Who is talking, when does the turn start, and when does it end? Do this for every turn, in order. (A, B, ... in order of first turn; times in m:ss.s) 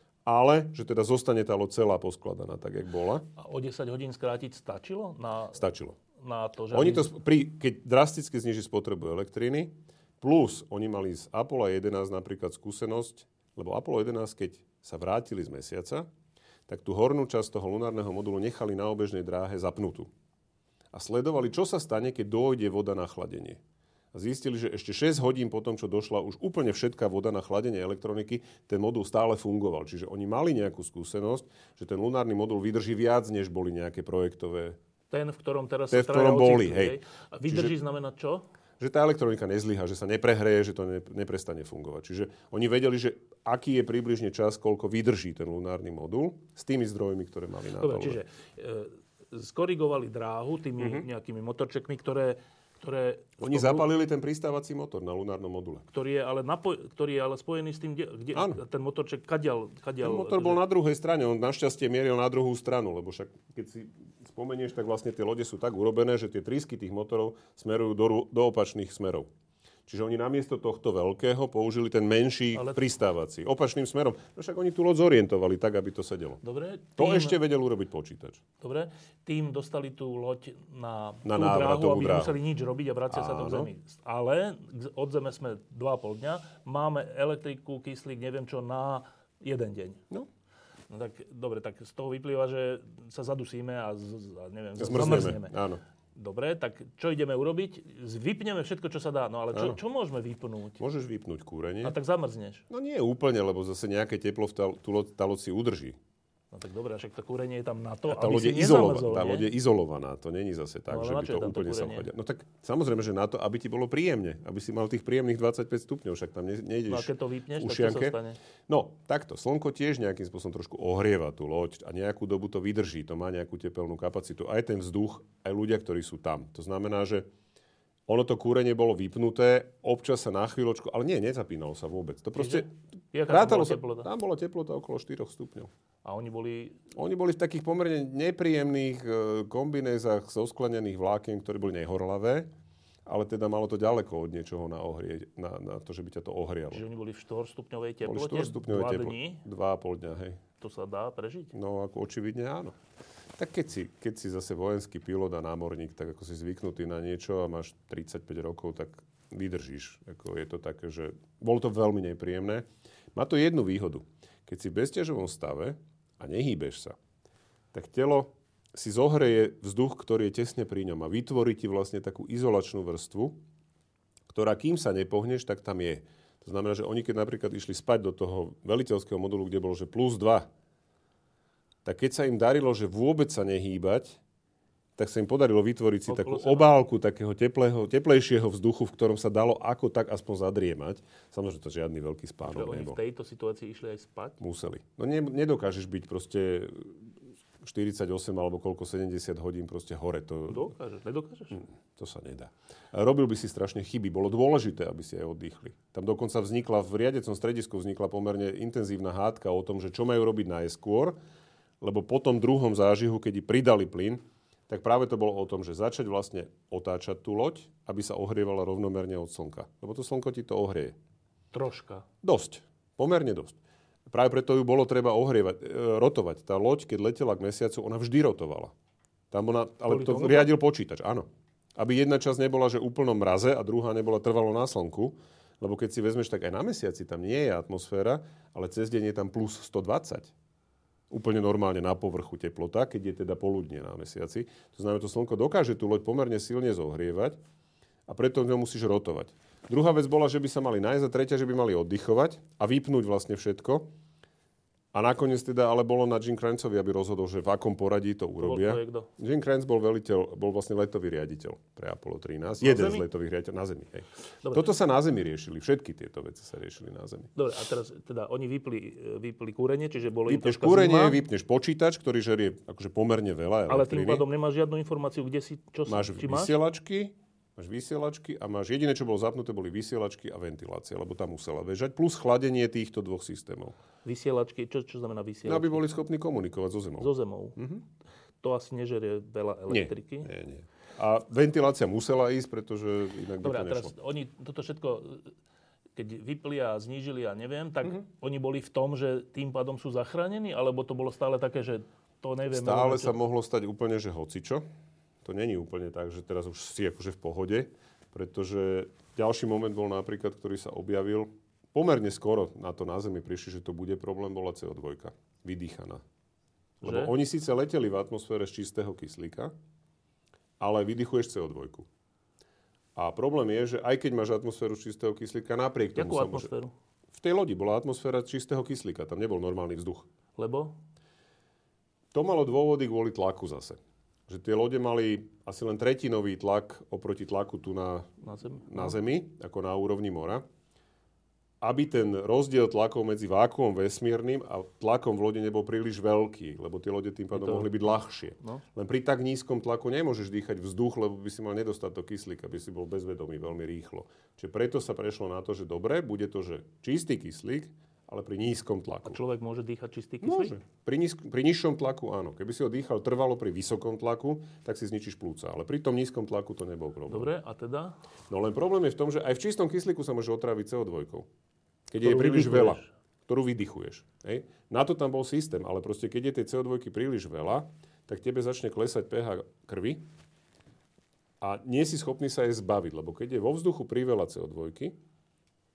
0:00.2-0:03.2 A
0:03.4-0:05.6 B
0:05.5-0:06.0 A
0:06.2-0:07.1 B
0:06.7-0:16.1 A
0:16.7-0:20.1 A
0:20.9-0:23.6 A
0:24.1-0:34.8 A
0:35.1-0:38.4 B
0:35.9-0:37.0 A
0:37.5-0:37.7 A
0:38.8-0:48.2 A
0:47.8-0:53.9 B
0:50.8-0:51.0 A
0:53.4-0:55.9 A
0:55.9-1:00.6 B
0:58.3-0:58.6 A
1:00.0-1:09.3 A
1:09.9-1:16.4 A
1:16.4-1:17.4 B
1:17.0-1:18.4 A
1:18.6-1:30.0 B
1:21.2-1:22.3 A
1:23.1-1:23.7 A
1:30.9-1:35.6 B
1:34.8-1:35.8 A
1:36.2-1:40.8 B
1:39.5-1:39.8 A
1:40.8-1:41.9 A
1:41.8-1:42.6 B
1:42.7-1:46.0 A
1:46.5-1:49.5 B
1:48.1-1:58.2 A
1:50.9-1:52.1 B
1:56.9-1:58.4 B
1:58.7-2:07.3 A
2:08.1-2:12.7 A
2:12.4-2:14.1 B
2:13.2-2:15.7 A
2:16.0-2:16.8 B
2:17.0-2:22.5 A
2:23.0-2:26.8 A
2:26.7-2:29.4 B
2:28.0-2:30.4 A
2:30.6-2:31.5 B
2:31.5-2:32.8 A
2:33.4-2:47.0 A
2:47.7-2:53.4 A
2:54.3-3:00.5 A
3:01.8-3:04.2 A
3:05.0-3:13.0 A
3:06.1-3:06.7 B
3:12.5-3:14.4 B
3:14.4-3:17.0 A
3:17.6-3:20.7 A
3:20.5-3:21.6 B
3:21.5-3:31.2 A
3:31.8-3:40.9 A
3:41.5-3:42.0 B
3:42.2-3:48.7 A
3:49.3-3:51.2 A
3:49.9-3:50.5 B
3:51.8-4:00.3 A
4:01.1-4:07.4 A
4:08.1-4:13.9 A
4:14.9-4:27.3 A
4:18.4-4:19.1 B
4:22.6-4:23.0 B
4:24.4-4:24.7 B
4:27.4-4:31.2 B
4:30.3-4:34.2 A
4:33.7-4:36.6 B
4:35.9-4:43.8 A
4:44.0-4:45.8 B
4:45.4-4:47.8 A
4:47.0-4:47.6 B
4:48.4-4:50.3 B
4:49.7-4:53.9 A
4:53.4-4:55.3 B
4:56.0-5:03.2 B
5:02.5-5:04.6 A
5:05.2-5:16.0 A
5:16.8-5:19.5 A
5:16.8-5:17.1 B
5:20.6-5:21.9 A
5:23.0-5:26.5 A
5:26.0-5:26.7 B
5:27.1-5:30.1 A
5:30.4-5:30.7 B
5:32.1-5:40.4 A
5:38.2-5:38.9 B
5:41.6-5:59.2 A
5:47.3-5:47.7 B
5:59.0-6:00.6 B
6:00.2-6:07.3 A
6:07.1-6:08.0 B
6:08.3-6:11.3 A
6:11.9-6:20.0 A
6:12.0-6:12.9 B
6:21.4-6:24.9 A